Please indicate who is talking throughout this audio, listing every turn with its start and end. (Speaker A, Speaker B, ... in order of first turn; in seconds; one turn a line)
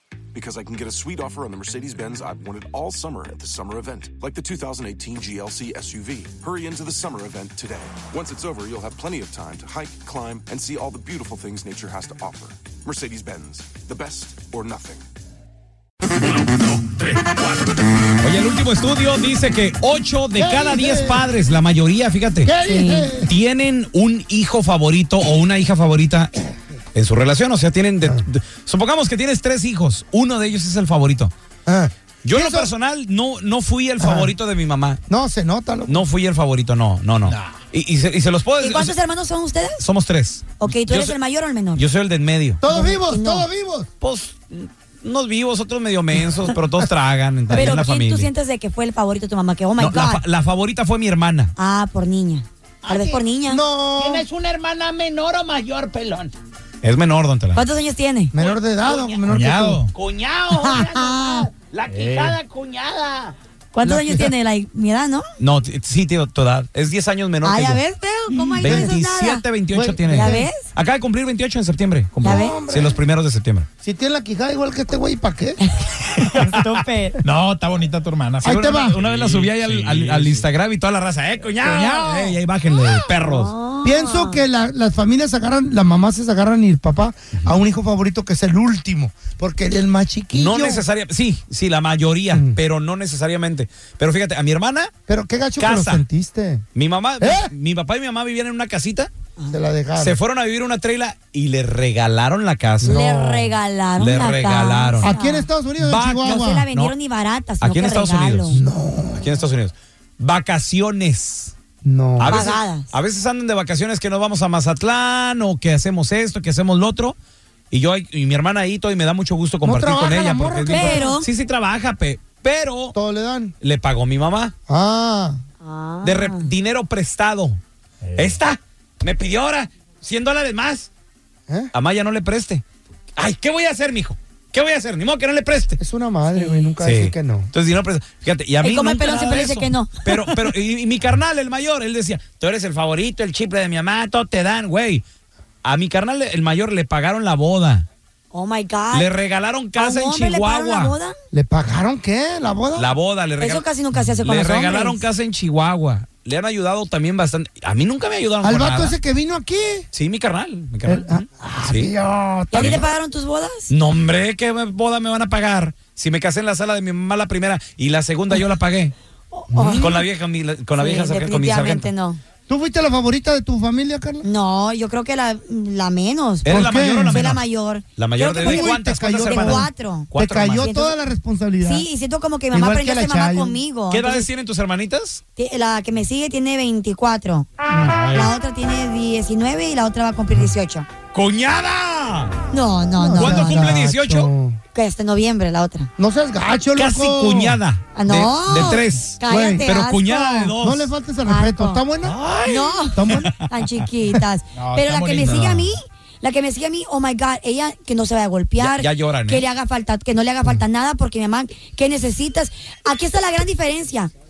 Speaker A: 0.3-15.1
Speaker B: 18.2-22.5
Speaker C: 20.3-21.3
Speaker C: 22.4-23.3
Speaker D: 22.6-23.1
Speaker B: 23.2-26.4
Speaker B: 26.9-31.3
Speaker C: 31.6-32.7
Speaker B: 32.2-35.0
Speaker C: 34.0-34.3
Speaker C: 35.1-36.0
Speaker B: 35.9-39.0
Speaker D: 38.6-39.8
Speaker B: 39.8-41.2
Speaker D: 40.6-41.8
Speaker B: 41.7-42.6
Speaker C: 42.6-43.9
Speaker D: 42.6-43.5
Speaker B: 44.0-48.3
Speaker D: 47.5-50.2
Speaker B: 49.8-51.5
Speaker D: 51.5-53.6
Speaker E: 52.8-53.2
Speaker C: 53.5-54.2
Speaker E: 54.0-56.3
Speaker B: 56.8-57.6
Speaker D: 57.5-58.3
Speaker C: 58.3-59.8
Speaker E: 58.4-59.2
Speaker F: 59.3-59.8
Speaker E: 59.9-63.3
Speaker D: 60.5-61.5
Speaker B: 61.9-62.4
Speaker F: 62.0-62.4
Speaker D: 63.7-65.2
Speaker C: 63.8-64.3
Speaker B: 65.4-67.8
Speaker D: 67.4-69.4
Speaker C: 68.5-68.9
Speaker B: 68.6-73.7
Speaker C: 69.7-70.5
Speaker D: 70.1-70.7
Speaker D: 72.2-72.6
Speaker C: 72.2-73.0
Speaker C: 73.8-75.6
Speaker D: 75.6-77.2
Speaker F: 77.2-80.5
Speaker B: 78.4-83.5
Speaker C: 78.4-79.0
Speaker D: 83.2-84.4
Speaker C: 83.8-90.8
Speaker B: 90.3-94.9
Speaker C: 92.3-92.6
Speaker C: 95.1-96.6
Speaker B: 95.6-96.0
Speaker B: 96.7-99.1
Speaker C: 97.2-97.5
Speaker C: 99.5-100.2
Speaker B: 100.0-103.0
Speaker C: 102.8-103.5
Speaker D: 102.8-105.5
Speaker B: 104.0-105.1
Speaker C: 105.0-106.7
Speaker B: 105.8-107.0
Speaker D: 106.2-108.6
Speaker B: 107.6-108.6
Speaker C: 108.5-109.3
Speaker B: 109.1-111.5
Speaker C: 111.8-112.5
Speaker B: 112.2-117.2
Speaker D: 112.2-112.9
Speaker B: 117.7-123.0
Speaker C: 119.6-121.2
Speaker D: 120.7-121.3
Speaker C: 122.9-123.5
Speaker B: 123.6-124.5
Speaker C: 124.7-125.4
Speaker D: 125.6-126.5
Speaker B: 126.0-127.6
Speaker B: 128.2-130.9
Speaker B: 131.7-132.6
Speaker B: 133.2-135.8
Speaker C: 135.8-137.5
Speaker D: 136.3-136.7
Speaker B: 136.8-145.0
Speaker D: 138.6-140.3
Speaker B: 145.6-147.9
Speaker D: 148.3-149.1
Speaker B: 148.9-151.0
Speaker D: 149.8-151.2
Speaker C: 151.3-152.9
Speaker B: 152.7-153.7
Speaker D: 153.4-155.0
Speaker B: 154.2-158.9
Speaker C: 158.4-159.9
Speaker B: 159.9-161.1
Speaker C: 160.8-162.9
Speaker B: 161.6-161.9
Speaker D: 162.5-163.7
Speaker B: 162.6-162.8
Speaker B: 163.7-168.9
Speaker D: 169.3-170.0
Speaker C: 169.5-170.0
Speaker B: 169.7-171.9
Speaker D: 170.8-172.2
Speaker C: 172.5-174.2
Speaker D: 174.2-181.0
Speaker B: 176.4-177.4
Speaker C: 176.4-177.3
Speaker B: 178.0-180.7
Speaker C: 178.4-181.9
Speaker D: 181.6-184.3
Speaker C: 182.5-183.6
Speaker B: 183.9-185.2
Speaker D: 185.3-187.5
Speaker D: 188.1-190.9
Speaker B: 191.1-192.4
Speaker D: 192.5-193.7
Speaker C: 192.9-194.6
Speaker B: 193.2-194.3
Speaker D: 194.7-195.9
Speaker C: 196.0-197.6
Speaker B: 196.7-200.9
Speaker D: 197.9-200.5
Speaker C: 199.2-199.7
Speaker C: 200.6-202.2
Speaker D: 201.2-201.8
Speaker B: 202.0-203.3
Speaker D: 202.4-214.1
Speaker C: 202.9-203.3
Speaker B: 204.9-205.5
Speaker F: 205.2-205.6
Speaker B: 208.6-209.5